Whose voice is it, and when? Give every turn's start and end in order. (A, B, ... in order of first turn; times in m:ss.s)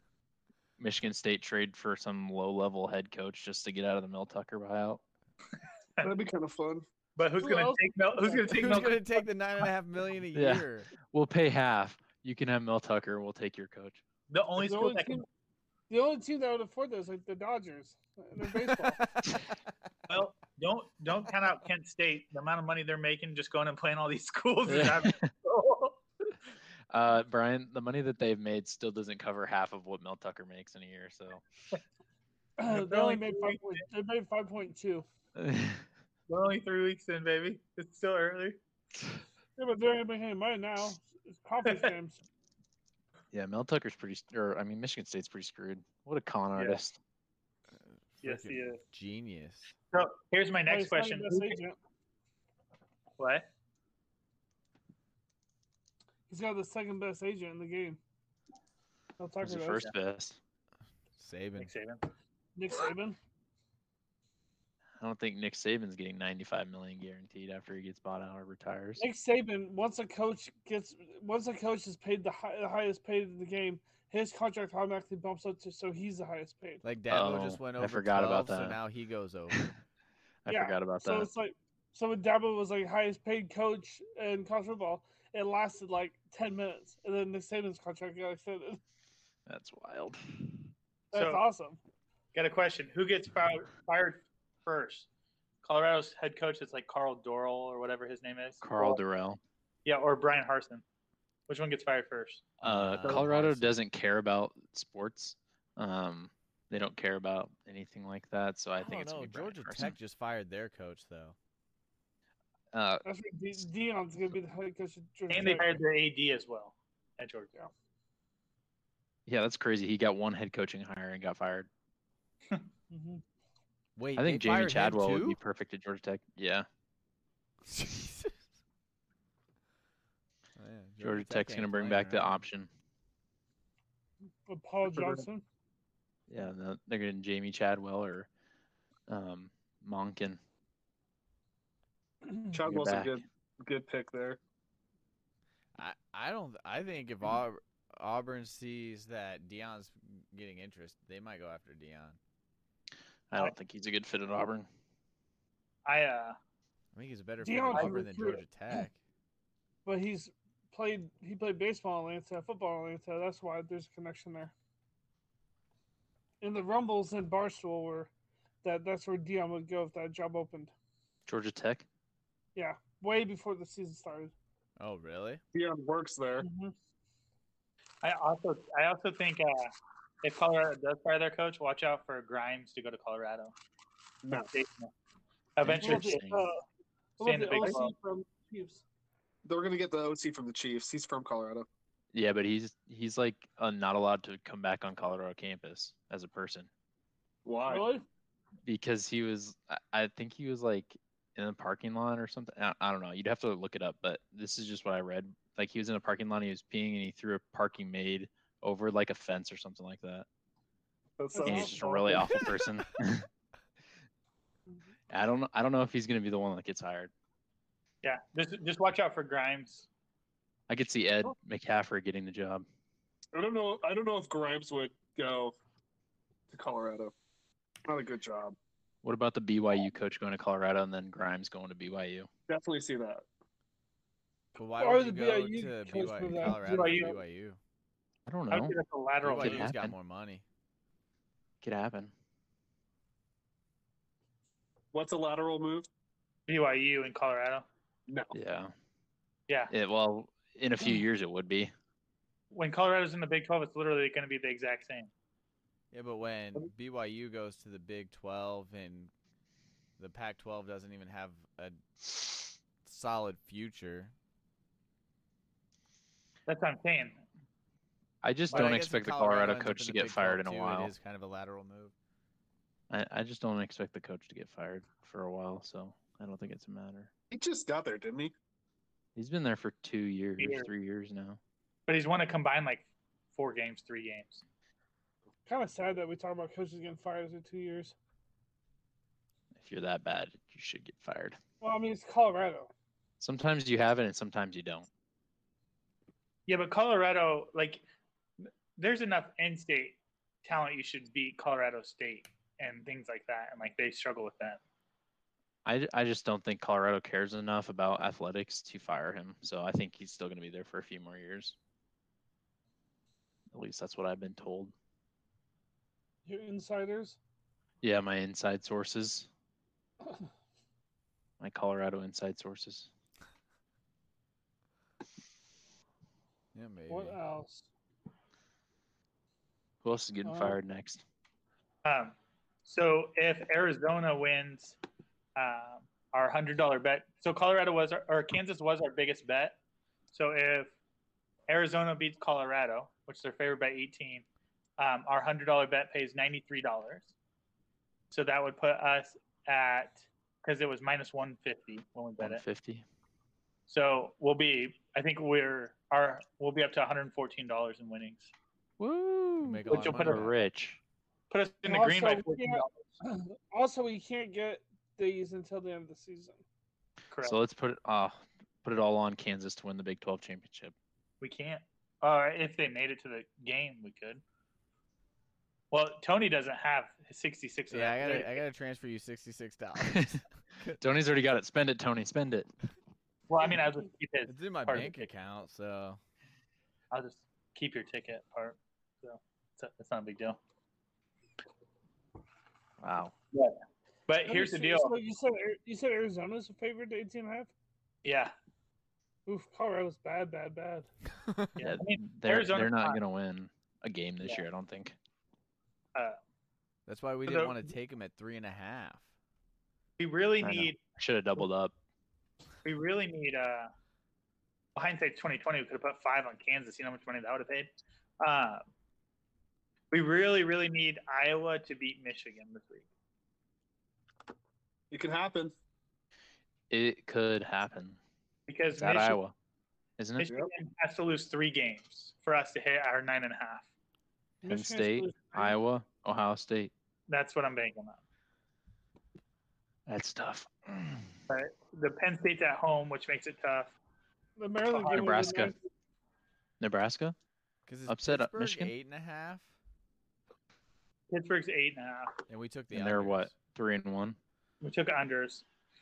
0:00.8-0:05.0 A
0:06.0-0:06.8 B
0:07.2-0:09.0 C
0:07.4-0:08.8 D
0:08.5-0:10.9 E
0:10.3-0:14.0 A
0:14.3-0:15.2 C
0:14.6-0:15.2 D
0:15.9-0:19.0 D
0:19.0-0:19.3 E
0:20.1-0:26.0 C
0:24.6-0:25.3 A
0:26.9-0:31.4 A
0:32.6-0:35.0 D
0:32.7-0:33.8 C
0:35.3-0:35.8 A
0:36.3-0:38.6 C
0:39.6-0:42.2 D
0:41.6-0:41.9 C
0:43.3-0:47.0 A
0:48.2-0:49.7 E
0:48.2-0:48.8 C
0:49.9-0:51.6 C
0:50.7-0:51.8 D
0:53.2-0:53.4 C
0:56.3-0:58.0 D
0:59.2-0:59.8 D
0:59.4-1:00.4 A
1:01.2-1:01.7 E
1:01.6-1:02.0 C
1:02.6-1:03.2 D
1:05.0-1:09.0 A
1:09.0-1:16.8 D
1:16.8-1:19.7 E
1:17.1-1:18.8 A
1:20.4-1:21.3 A
1:20.5-1:28.8 D
1:29.5-1:30.2 A
1:31.1-1:31.8 D
1:31.1-1:31.4 C
1:32.3-1:35.1 C
1:35.6-1:39.0 C
1:38.6-1:39.4 A
1:39.8-1:40.8 C
1:41.5-1:42.6 C
1:42.6-1:50.0 A
1:42.6-1:43.8 E
1:48.8-1:51.3 E
1:52.7-1:53.0 A
1:53.0-1:55.8 D
1:55.3-1:57.5 C
1:59.3-2:01.7 A
2:02.9-2:03.2 D
2:04.0-2:05.4 E
2:04.2-2:06.7 A
2:07.6-2:08.3 E
2:10.6-2:12.4 E
2:11.0-2:12.7 A
2:14.5-2:15.4 D
2:14.9-2:15.2 B
2:16.3-2:18.3 A
2:19.1-2:20.4 A
2:22.2-2:22.6 D
2:22.5-2:24.4 B
2:22.6-2:23.1 A
2:25.8-2:32.2 E
2:33.3-2:34.7 A
2:35.8-2:36.4 C
2:36.9-2:39.0 E
2:37.4-2:38.4 D
2:39.8-2:44.5 D
2:46.4-2:48.1 D
2:48.6-2:50.7 D
2:51.2-2:51.8 A
2:52.5-2:54.3 D
2:54.8-2:55.4 E
2:55.5-2:56.4 B
2:56.4-2:56.7 D
2:58.0-3:03.5 C
3:04.2-3:04.5 B
3:04.5-3:04.9 C
3:05.6-3:06.3 C
3:05.6-3:06.5 A
3:05.8-3:06.6 D
3:07.2-3:08.8 D
3:07.2-3:07.9 C
3:09.4-3:11.6 B
3:12.1-3:16.7 A
3:17.4-3:17.9 B
3:17.6-3:18.0 D
3:18.6-3:30.2 A
3:31.2-3:32.5 B
3:31.3-3:32.2 D
3:31.4-3:33.3 A
3:35.1-3:37.1 A
3:38.0-3:39.9 C
3:40.7-3:42.6 A
3:43.3-3:45.5 B
3:46.5-3:47.1 B
3:47.9-3:48.6 B
3:49.0-3:52.3 A
3:52.5-3:53.2 B
3:54.6-3:57.6 E
3:54.8-3:57.2 D
3:56.5-3:57.1 C
3:58.3-3:59.9 A
3:58.5-3:59.7 C
3:59.2-4:00.4 E
4:01.6-4:02.1 A
4:04.9-4:05.9 B
4:06.5-4:07.6 C
4:08.1-4:08.3 B
4:08.3-4:08.7 A
4:09.7-4:11.7 A
4:12.5-4:15.1 C
4:15.9-4:19.1 E
4:20.0-4:24.1 E
4:26.5-4:27.2 C
4:28.2-4:30.9 A
4:28.5-4:28.8 C
4:28.5-4:31.9 E
4:32.9-4:37.1 A
4:37.3-4:38.3 B
4:39.2-4:41.4 A
4:40.4-4:40.7 C
4:41.9-4:44.4 C
4:45.4-4:47.9 D
4:49.6-4:51.4 A
4:51.6-4:52.7 D
4:53.2-4:54.9 A
4:56.5-4:57.8 C
4:58.8-5:04.6 C
5:05.6-5:11.6 A
5:13.5-5:14.7 A
5:16.2-5:17.2 D
5:17.8-5:19.3 A
5:21.4-5:22.9 A
5:26.5-5:27.2 E
5:26.9-5:27.7 D
5:29.8-5:31.0 A
5:30.2-5:30.6 D
5:31.8-5:34.8 C
5:35.4-5:39.6 C
5:40.1-5:40.7 C
5:41.5-5:44.2 C
5:44.8-5:47.1 C
5:48.1-5:52.4 C
5:52.2-5:52.8 A
5:53.7-5:58.3 C
5:58.8-6:00.8 A
5:59.4-6:00.3 E
5:59.7-6:00.3 C
6:01.3-6:02.8 C
6:01.6-6:06.4 D
6:07.1-6:07.4 C
6:07.2-6:10.7 A
6:11.2-6:14.2 C
6:15.7-6:18.4 C
6:17.7-6:20.8 E
6:19.8-6:20.2 A
6:20.8-6:22.5 A
6:23.3-6:25.0 C
6:24.3-6:26.0 E
6:26.9-6:30.4 C
6:32.8-6:33.1 A
6:34.1-6:34.9 C
6:34.2-6:37.5 D
6:38.0-6:38.3 C
6:39.2-6:40.9 D
6:41.6-6:43.0 C
6:41.6-6:44.9 A
6:46.9-6:49.1 E
6:47.2-6:47.6 C
6:50.0-6:50.8 C
6:50.4-6:51.7 A
6:52.6-6:53.7 C
6:54.7-6:58.6 C
6:59.9-7:02.8 C
7:04.9-7:05.5 B
7:06.7-7:08.0 A
7:08.5-7:09.2 C
7:08.8-7:09.3 A
7:10.0-7:10.3 A
7:10.2-7:13.7 C
7:14.4-7:15.6 D
7:14.5-7:16.7 A
7:17.1-7:18.0 C
7:19.9-7:21.2 A
7:21.3-7:23.7 C
7:24.4-7:25.6 D
7:24.7-7:25.5 A
7:26.6-7:27.1 A
7:27.7-7:29.5 E
7:27.9-7:28.7 A
7:31.1-7:32.1 C
7:32.3-7:33.3 E
7:32.7-7:34.2 A
7:34.6-7:35.4 C